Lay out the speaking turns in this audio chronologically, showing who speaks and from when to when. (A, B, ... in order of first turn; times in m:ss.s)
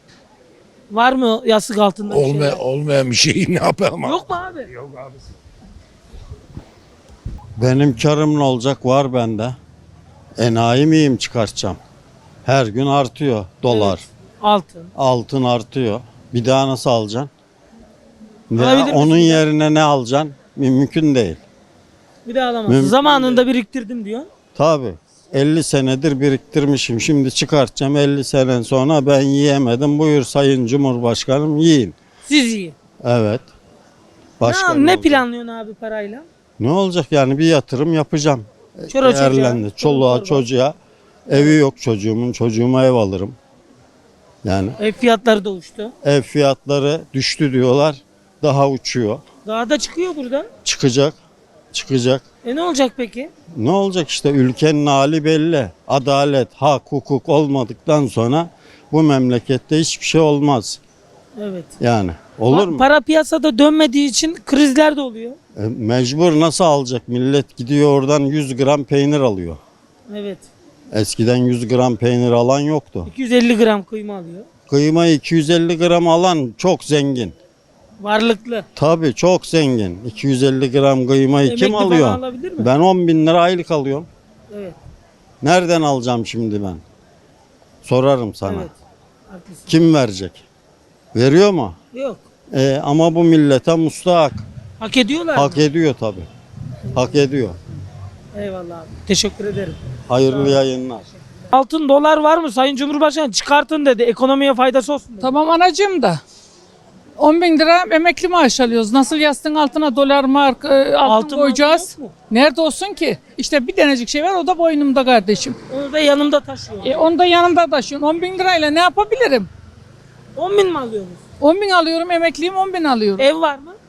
0:00.9-0:02.6 A
0:02.1-0:05.1 B
0:04.0-0:04.7 A
0:07.6-0:09.6 C
0:10.4-0:11.8 C
0:12.4-0:14.0 C
0:13.7-0:14.9 A
0:15.0-0:17.3 C
0:18.5-0:21.4 C
0:18.6-0:19.4 A
0:22.2-0:24.3 A
0:22.6-0:23.4 C
0:24.6-0:31.9 C
0:32.2-0:32.7 A
0:33.0-0:33.4 C
0:34.4-0:35.2 C
0:34.4-0:36.3 A
0:36.6-0:40.7 C
0:38.9-0:40.4 A
0:41.3-0:43.3 C
0:44.4-0:44.8 C
0:44.8-0:45.9 A
0:46.0-0:49.2 C
0:49.4-0:50.5 A
0:50.6-0:51.2 C
0:51.7-0:52.2 C
0:52.4-0:53.3 A
0:53.5-1:00.8 C
1:01.4-1:01.7 A
1:01.8-1:02.8 C
1:02.5-1:05.4 A
1:05.6-1:09.6 C
1:10.1-1:10.5 A
1:10.9-1:13.1 C
1:13.1-1:14.5 A
1:14.7-1:17.3 C
1:18.0-1:18.6 A
1:18.8-1:24.1 C
1:21.4-1:22.7 A
1:24.5-1:24.8 A
1:25.4-1:26.8 C
1:27.8-1:28.7 C
1:28.4-1:28.7 A
1:29.3-1:29.7 A
1:29.7-1:30.4 C
1:31.1-1:31.8 C
1:31.9-1:32.2 A
1:32.5-1:34.4 C
1:34.8-1:35.6 A
1:35.3-1:36.3 C
1:36.9-1:37.6 C
1:38.3-1:40.5 A
1:40.1-1:41.0 C
1:41.5-1:45.3 A
1:45.2-1:46.2 D
1:47.2-1:55.6 D
1:51.0-1:52.1 A
1:55.7-1:57.0 A
1:56.8-1:59.5 D
2:00.4-2:01.2 A
2:01.4-2:03.3 D
2:03.2-2:03.8 A